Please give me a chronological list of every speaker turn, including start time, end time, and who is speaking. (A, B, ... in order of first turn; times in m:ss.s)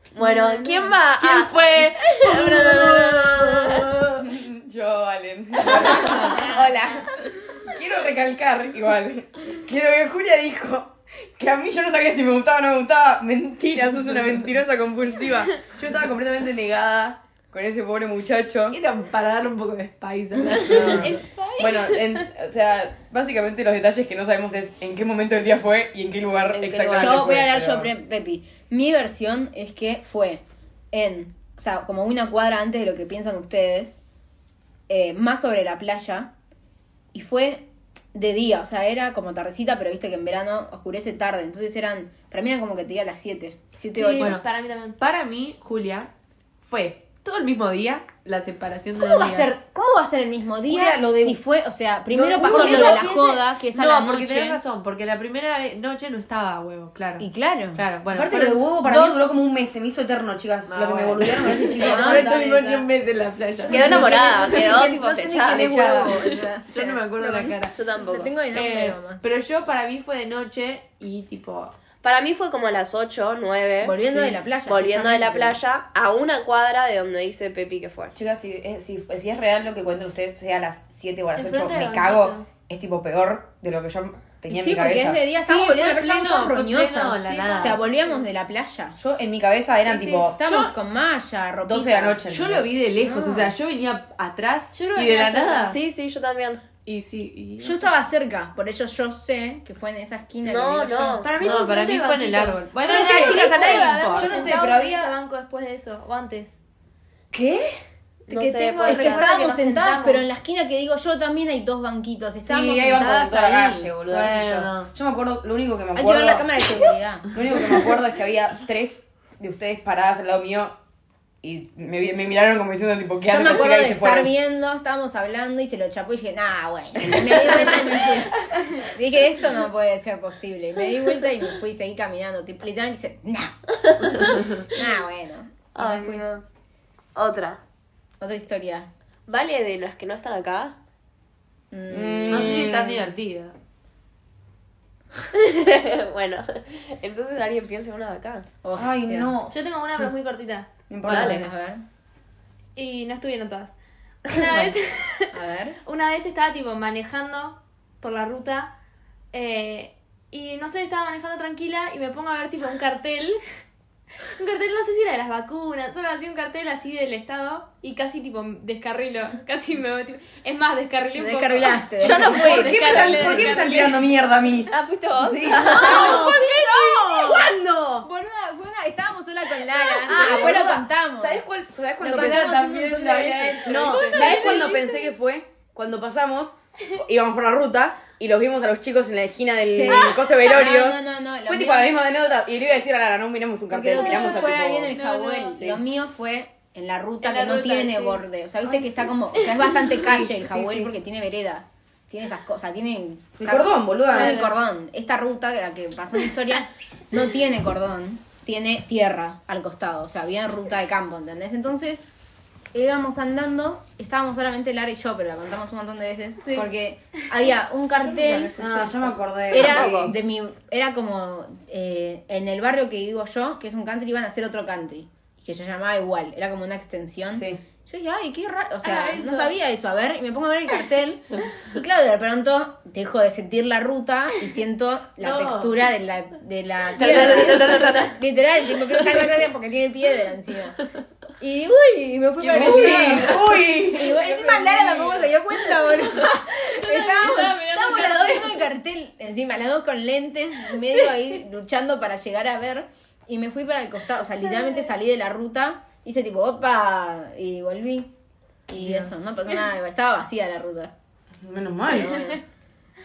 0:00.2-0:03.9 A
0:00.2-0:00.9 B
0:01.0-0:04.3 C
0:04.2-0:18.8 D
0:06.0-0:06.5 C
0:18.7-0:21.2 C
0:20.6-0:27.9 D
0:20.7-0:22.3 B
0:26.6-0:27.3 A
0:26.6-0:27.0 C
0:26.9-0:34.0 E
0:34.9-0:36.3 E
0:37.1-0:44.4 E
0:43.9-0:45.0 B
0:44.2-0:49.6 C
0:49.0-0:54.6 E
0:50.7-0:51.4 D
0:52.1-0:53.0 D
0:52.5-0:53.4 B
0:52.5-0:53.1 C
0:53.7-0:59.2 C
0:57.2-0:57.8 E
0:58.1-1:02.2 D
1:00.7-1:04.9 C
1:01.7-1:02.9 B
1:01.8-1:02.8 E
1:03.6-1:09.2 E
1:03.7-1:05.8 A
1:05.4-1:06.2 D
1:06.3-1:07.8 C
1:07.7-1:08.4 A
1:08.4-1:11.7 C
1:12.0-1:18.2 A
1:13.8-1:15.6 E
1:18.1-1:25.2 D
1:21.4-1:22.5 B
1:24.5-1:29.0 E
1:25.4-1:27.8 C
1:27.2-1:28.2 B
1:29.0-1:30.5 D
1:29.8-1:30.7 B
1:30.1-1:32.2 E
1:31.6-1:33.5 D
1:32.3-1:35.8 C
1:34.7-1:35.7 B
1:35.5-1:36.6 A
1:36.9-1:37.9 C
1:37.6-1:41.3 E
1:40.4-1:41.4 A
1:41.2-1:46.6 B
1:41.4-1:44.5 C
1:42.8-1:45.2 D
1:47.3-1:47.8 D
1:48.3-1:49.3 A
1:48.3-1:50.3 B
1:48.9-1:53.9 E
1:52.4-2:00.8 D
1:54.1-1:54.9 C
1:56.0-1:57.3 E
2:01.4-2:04.3 D
2:03.3-2:16.2 E
2:07.0-2:08.6 D
2:14.2-2:14.6 C
2:15.8-2:16.4 A
2:17.2-2:17.6 A
2:18.2-2:18.9 E
2:19.3-2:20.8 A
2:21.7-2:22.6 E
2:21.9-2:23.1 D
2:22.3-2:23.6 C
2:25.3-2:28.5 A
2:28.6-2:29.3 E
2:28.8-2:29.6 D
2:29.5-2:30.7 B
2:30.9-2:31.5 D
2:31.1-2:31.8 E
2:31.1-2:31.4 A
2:32.8-2:35.3 B
2:35.3-2:35.8 E
2:35.8-2:38.7 B
2:39.3-2:43.4 B
2:44.4-2:54.1 B
2:51.2-2:52.6 E
2:52.0-2:53.6 A
2:52.3-2:56.3 D
2:54.7-2:56.4 A
2:55.6-3:01.4 E
2:57.1-2:58.1 D
3:00.0-3:02.6 D
3:02.0-3:04.4 C
3:02.0-3:04.5 E
3:03.6-3:15.0 D
3:03.7-3:05.0 B
3:09.7-3:12.0 E
3:09.9-3:10.3 B
3:13.7-3:32.1 E
3:13.9-3:15.7 B
3:17.2-3:19.8 B
3:19.9-3:20.9 D
3:23.4-3:24.4 D
3:24.1-3:24.6 B
3:32.7-3:39.0 E
3:38.0-3:38.9 C
3:38.6-3:40.2 D
3:39.5-4:00.8 E
3:39.5-3:40.1 A
3:47.4-3:47.6 D
3:48.9-3:49.2 C
3:48.9-3:49.5 B
3:55.2-3:55.7 C
3:57.0-3:58.2 A
4:01.4-4:18.1 E
4:02.4-4:03.6 C
4:02.5-4:04.2 D
4:04.2-4:05.3 C
4:04.3-4:04.9 B
4:05.8-4:08.7 B
4:18.7-4:20.9 E
4:18.8-4:19.2 C
4:21.4-4:22.3 D
4:21.9-4:22.4 E